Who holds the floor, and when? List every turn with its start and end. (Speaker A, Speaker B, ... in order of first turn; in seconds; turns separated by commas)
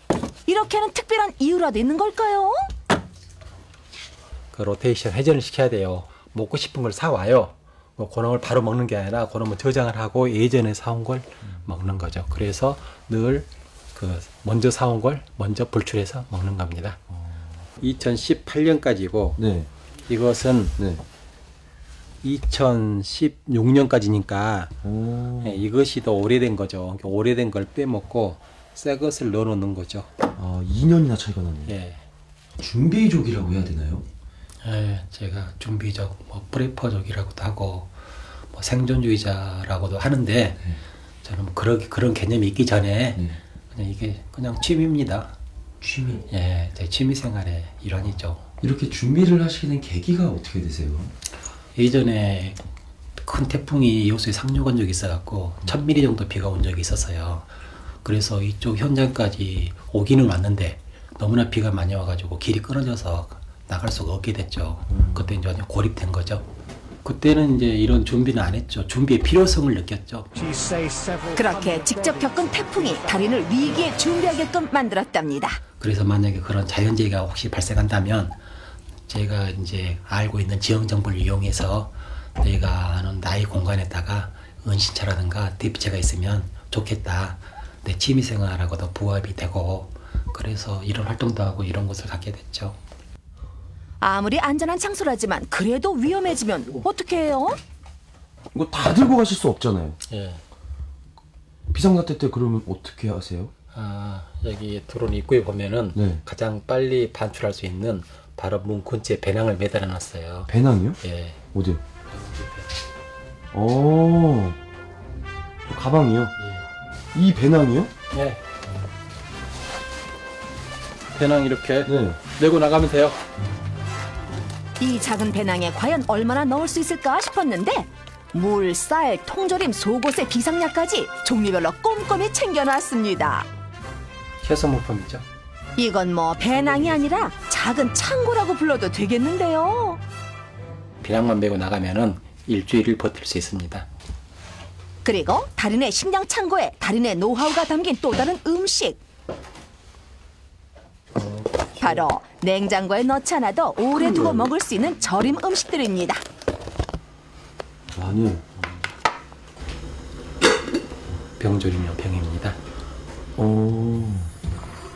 Speaker A: 0.5-2.7, Speaker B: 4.5-17.0, Speaker B: 17.8-19.4, Speaker C: 19.4-19.7, Speaker B: 20.1-20.8, Speaker C: 20.8-21.0, Speaker B: 22.2-24.7, Speaker C: 24.8-25.6, Speaker B: 25.4-30.1, Speaker C: 30.4-31.7, Speaker B: 31.6-32.0, Speaker C: 32.6-34.1, Speaker B: 34.6-37.9, Speaker B: 38.5-40.7, Speaker B: 41.2-45.4, Speaker C: 45.8-46.2, Speaker B: 46.3-48.5, Speaker C: 48.6-51.1, Speaker B: 51.8-52.6, Speaker B: 53.2-57.5, Speaker B: 58.0-66.4, Speaker C: 64.9-65.3, Speaker B: 67.0-70.6, Speaker A: 71.2-75.6, Speaker B: 75.8-78.4, Speaker B: 79.1-92.8, Speaker A: 94.0-97.6, Speaker C: 98.5-100.0, Speaker B: 100.1-100.4, Speaker C: 101.7-103.5, Speaker B: 103.7-111.4, Speaker C: 105.9-106.2, Speaker C: 110.5-111.0, Speaker C: 111.5-111.8, Speaker B: 112.1-112.7, Speaker C: 113.5-114.6, Speaker C: 115.7-116.3, Speaker B: 116.4-116.7, Speaker C: 117.1-117.9, Speaker B: 118.1-118.4, Speaker B: 121.1-123.2, Speaker C: 121.8-122.2, Speaker A: 124.8-133.5, Speaker B: 134.4-135.2, Speaker A: 135.8-140.0, Speaker B: 136.4-137.3, Speaker B: 141.0-143.8, Speaker A: 145.0-149.0, Speaker C: 151.2-152.0, Speaker A: 151.8-156.2, Speaker C: 154.0-154.5, Speaker C: 157.9-158.4, Speaker B: 161.4-162.6, Speaker C: 163.4-164.3